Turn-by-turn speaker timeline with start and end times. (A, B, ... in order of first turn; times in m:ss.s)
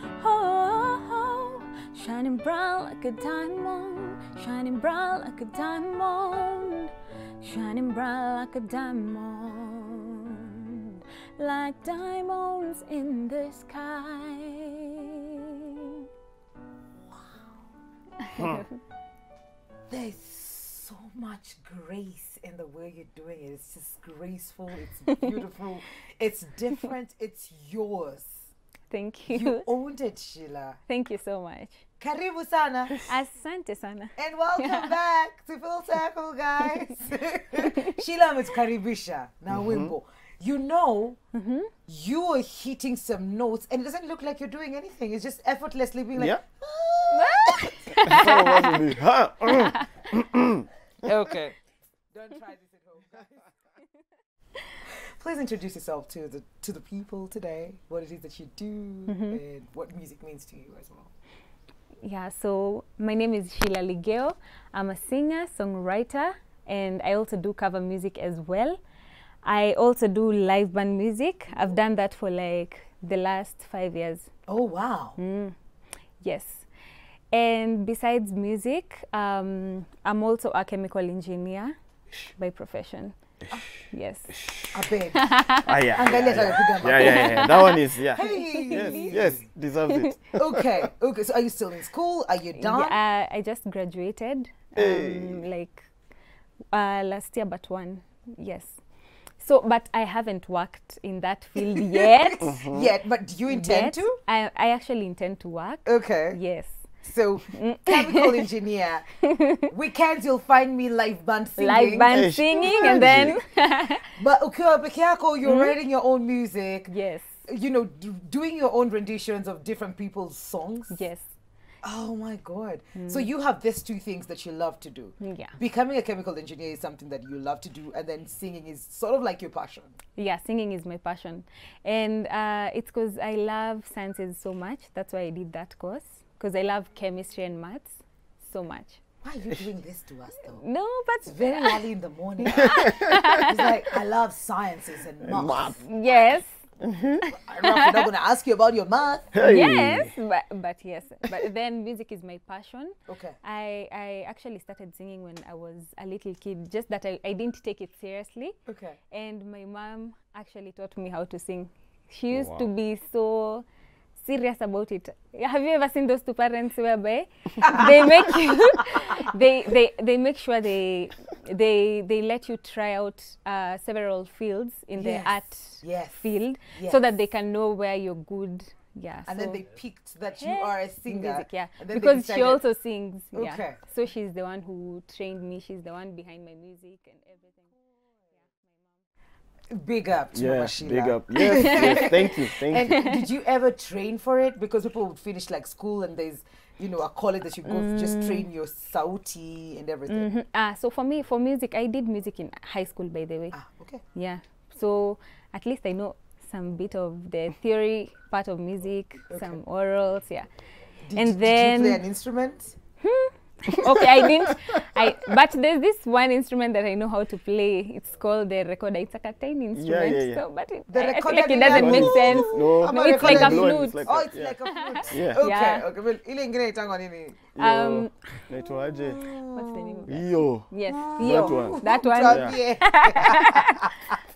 0:00.1-0:16.0 A
0:18.2-0:18.7 A
0:19.9-0:28.5 B
0:28.9-0:29.6 A
0:29.3-0:30.8 B
0:30.9-0:31.8 A
0:32.0-0:33.1 B
0:33.0-0:35.0 A
0:34.2-0:41.2 B
0:37.6-0:37.9 A
0:39.5-0:39.9 C
0:41.3-0:41.7 A
0:41.9-0:47.9 B
0:46.2-0:46.4 C
0:47.1-0:48.8 A
0:48.0-0:51.3 C
0:49.5-0:49.9 A
0:51.0-0:51.5 B
0:52.1-0:53.5 B
0:54.9-1:01.1 B
0:59.1-0:59.4 A
1:02.0-1:08.8 A
1:09.4-1:14.3 A
1:14.5-1:15.2 B
1:15.2-1:15.6 A
1:16.2-1:16.7 A
1:17.3-1:23.2 A
1:23.9-1:24.4 A
1:24.4-1:24.8 C
1:24.7-1:29.5 B
1:25.2-1:25.7 A
1:25.6-1:30.6 C
1:26.7-1:29.2 A
1:29.9-1:30.1 A
1:30.3-1:33.0 B
1:32.6-1:35.9 A
1:34.8-1:35.4 C
1:36.7-1:38.8 A
1:39.4-1:42.6 A
1:42.4-1:42.9 C
1:42.7-1:44.2 B
1:43.5-1:46.9 A
1:45.8-1:46.4 B
1:47.0-1:53.4 B
1:47.5-1:48.4 A
1:49.3-1:49.7 A
1:51.6-1:54.1 A
1:52.1-1:53.4 C
1:54.1-1:56.9 B
1:55.4-1:55.8 A
1:56.9-1:57.4 A
1:57.4-2:01.0 B
2:00.9-2:01.3 A
2:01.8-2:09.9 B
2:02.9-2:03.3 A
2:05.2-2:05.6 A
2:10.2-2:19.0 A
2:19.2-2:20.6 B
2:20.4-2:21.8 A
2:21.2-2:26.1 B
2:22.4-2:23.7 A
2:22.6-2:23.3 C
2:25.2-2:25.8 C
2:25.8-2:26.6 A
2:26.8-2:27.2 C
2:27.2-2:28.1 A
2:27.3-2:29.4 B
2:29.3-2:30.1 C
2:29.4-2:38.6 A
2:33.1-2:33.4 B
2:38.7-2:39.0 B
2:39.1-2:43.6 A
2:42.3-2:42.6 C
2:44.2-2:59.6 A
2:47.6-2:48.0 B
2:55.0-2:57.1 B
2:59.3-3:02.6 B
3:00.4-3:07.7 A
3:03.3-3:03.8 B
3:08.3-3:08.8 A
3:09.7-3:20.3 B
3:10.3-3:13.1 C
3:11.4-3:13.1 A
3:17.6-3:18.5 A
3:20.1-3:23.6 A
3:23.5-3:24.0 B
3:24.1-3:30.5 A
3:29.3-3:29.6 B
3:31.0-3:32.8 B
3:31.1-3:32.0 A
3:33.0-3:45.8 A
3:39.7-3:40.4 C
3:40.9-3:47.5 B
3:41.6-3:45.4 C
3:47.5-3:49.3 C
3:47.6-3:48.4 A
3:48.9-3:50.1 B
3:49.5-3:54.1 A
3:50.1-3:52.5 C
3:50.8-3:54.1 B